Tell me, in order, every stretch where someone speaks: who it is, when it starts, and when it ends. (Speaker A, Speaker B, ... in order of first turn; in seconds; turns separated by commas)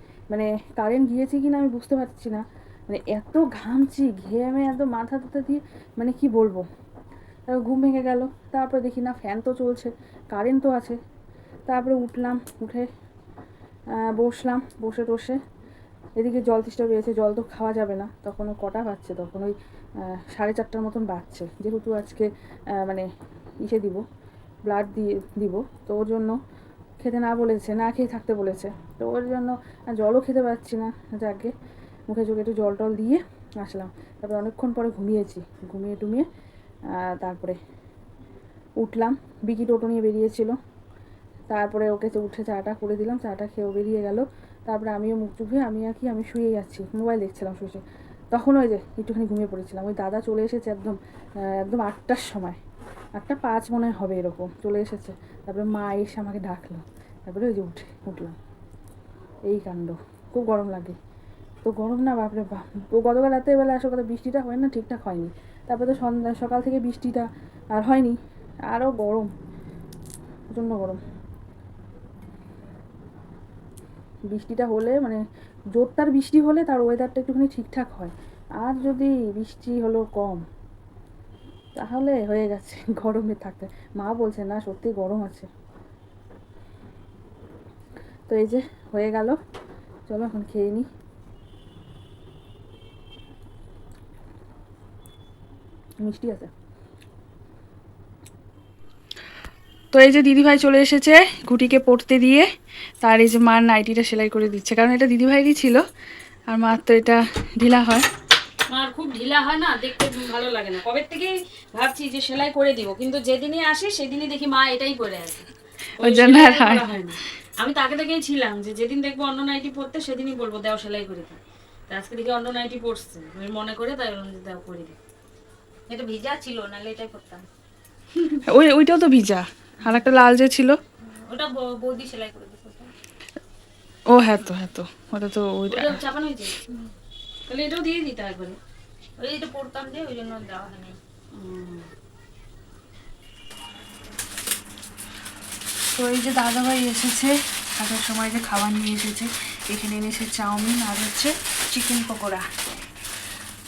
Speaker A: 0.3-6.7, Speaker A: 7.5-11.0, Speaker A: 11.7-12.9, Speaker A: 14.0-15.4, Speaker A: 16.2-23.1, Speaker A: 23.6-24.0, Speaker A: 24.7-26.4, Speaker A: 27.0-31.5, Speaker A: 32.1-36.3, Speaker A: 36.9-37.6, Speaker A: 38.8-40.6, Speaker A: 41.5-51.0, Speaker A: 51.5-52.6, Speaker A: 53.2-58.4, Speaker A: 59.5-61.0, Speaker A: 61.6-68.2, Speaker A: 68.7-69.3, Speaker A: 70.5-71.0, Speaker A: 74.3-75.2, Speaker A: 75.8-80.5, Speaker A: 81.8-85.5, Speaker A: 88.3-89.4, Speaker A: 90.1-90.9, Speaker A: 96.0-96.5, Speaker A: 99.9-102.5, Speaker A: 103.0-105.8, Speaker A: 106.5-108.1, Speaker B: 108.7-115.5, Speaker A: 116.0-116.9, Speaker B: 116.0-125.0, Speaker C: 125.9-127.5, Speaker B: 128.2-128.4, Speaker A: 128.5-130.8, Speaker C: 131.0-132.9, Speaker A: 134.1-136.0, Speaker B: 135.7-136.6, Speaker B: 137.5-138.6, Speaker C: 139.2-141.0, Speaker B: 141.3-141.9, Speaker A: 145.9-152.5